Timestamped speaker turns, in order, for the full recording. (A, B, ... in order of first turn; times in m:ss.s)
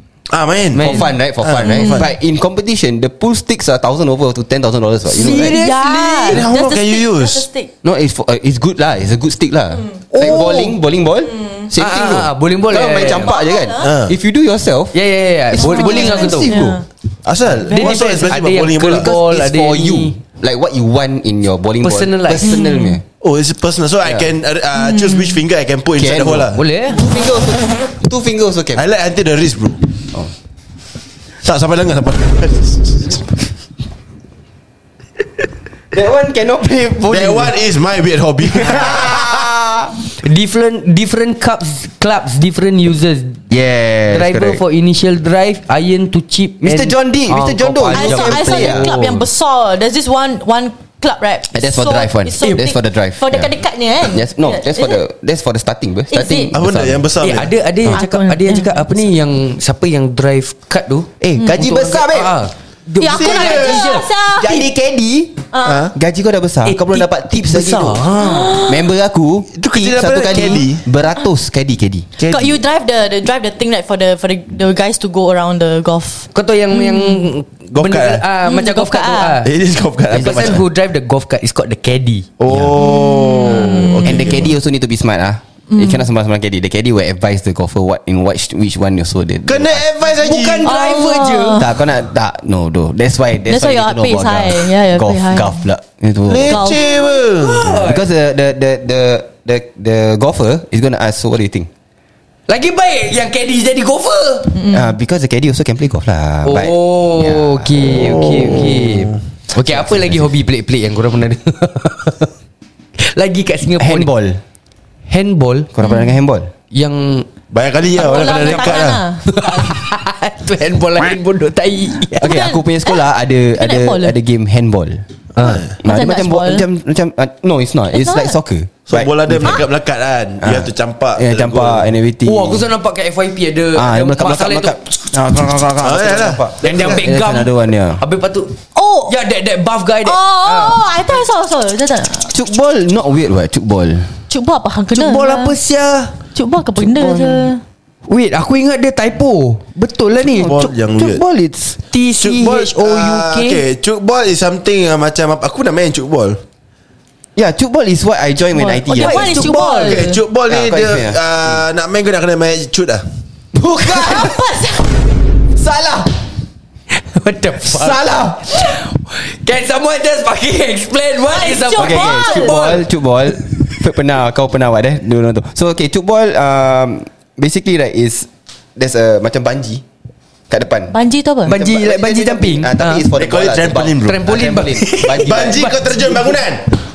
0:00.3-0:02.1 A
0:00.7-0:05.6 B
0:00.8-0:01.1 C
0:01.6-0:02.1 D
0:05.1-0:06.4 C
0:05.2-0:07.7 D
0:06.3-0:07.5 A
0:07.8-0:15.0 B
0:10.1-0:10.8 C
0:11.8-0:13.3 C
0:13.1-0:13.9 D
0:13.8-0:14.1 A
0:14.9-0:16.6 C
0:15.5-0:16.8 B
0:15.6-0:16.8 D
0:17.2-0:19.1 A
0:17.7-0:18.0 D
0:17.7-0:20.2 C
0:18.8-0:23.0 B
0:21.8-0:22.6 C
0:22.4-0:23.0 D
0:23.2-0:26.6 A
0:24.0-0:24.3 B
0:24.8-0:25.4 D
0:26.0-0:28.9 B
0:26.5-0:27.0 C
0:28.8-0:29.9 A
0:31.4-0:33.2 A
0:35.9-0:37.6 B
0:37.1-0:39.4 A
0:38.4-0:39.9 B
0:40.2-0:43.4 C
0:43.5-0:44.6 B
0:44.1-0:49.2 C
0:46.6-0:48.9 B
0:47.9-0:55.0 D
0:51.5-0:57.1 B
0:56.1-0:56.6 D
0:56.5-0:57.5 A
0:57.2-1:04.1 C
0:57.9-0:58.9 D
1:01.2-1:02.3 B
1:01.4-1:01.6 D
1:03.0-1:04.7 D
1:03.1-1:03.9 A
1:03.2-1:12.1 B
1:05.5-1:05.9 D
1:05.6-1:05.9 A
1:06.6-1:08.7 C
1:08.2-1:08.8 D
1:09.6-1:10.8 A
1:12.2-1:12.6 A
1:12.3-1:17.3 D
1:16.3-1:19.5 C
1:17.7-1:18.2 A
1:18.4-1:19.4 D
1:19.4-1:20.6 A
1:20.1-1:22.3 C
1:22.4-1:24.5 A
1:22.5-1:22.8 B
1:22.8-1:24.4 D
1:24.0-1:29.9 B
1:25.7-1:26.1 D
1:29.4-1:30.7 A
1:30.2-1:31.6 C
1:30.6-1:31.8 D
1:31.6-1:36.7 B
1:33.5-1:35.6 D
1:36.3-1:37.7 A
1:36.4-1:37.2 D
1:37.4-1:38.1 C
1:37.6-1:41.7 B
1:42.5-1:44.6 C
1:44.6-1:44.9 D
1:44.6-1:48.7 B
1:46.4-1:52.3 C
1:48.4-1:48.9 A
1:49.5-1:50.3 B
1:53.0-1:54.1 C
1:53.8-1:54.4 B
1:55.1-1:55.7 C
1:55.7-1:56.5 B
1:55.8-1:56.1 D
1:56.7-1:57.3 C
1:57.5-1:59.0 A
1:58.0-1:59.8 D
1:58.4-2:02.4 C
2:02.2-2:05.0 B
2:02.2-2:04.1 D
2:05.4-2:05.6 C
2:05.4-2:05.7 A
2:05.7-2:09.6 B
2:05.8-2:06.7 D
2:07.9-2:08.4 D
2:08.9-2:11.9 A
2:10.4-2:12.7 B
2:12.2-2:14.8 C
2:13.8-2:18.0 B
2:15.8-2:17.0 A
2:16.6-2:18.6 C
2:18.8-2:19.1 D
2:19.1-2:20.8 C
2:20.0-2:22.3 D
2:22.3-2:24.2 B
2:24.3-2:25.6 D
2:24.9-2:26.1 C
2:26.4-2:27.6 D
2:26.8-2:27.5 B
2:28.1-2:31.1 C
2:30.4-2:31.2 A
2:31.0-2:31.8 B
2:31.8-2:33.6 C
2:32.2-2:36.4 A
2:37.4-2:39.4 B
2:38.5-2:40.2 D
2:38.9-2:40.1 C
2:39.8-2:43.0 A
2:40.5-2:41.6 B
2:43.5-2:44.4 B
2:43.8-2:44.9 D
2:45.6-2:46.2 B
2:46.9-2:52.8 C
2:47.6-2:48.4 B
2:51.2-2:52.8 D
2:51.8-2:59.8 B
3:00.5-3:05.8 B
3:00.9-3:01.6 D
3:01.4-3:03.1 C
3:03.1-3:04.2 A
3:04.0-3:06.4 C
3:05.2-3:06.7 A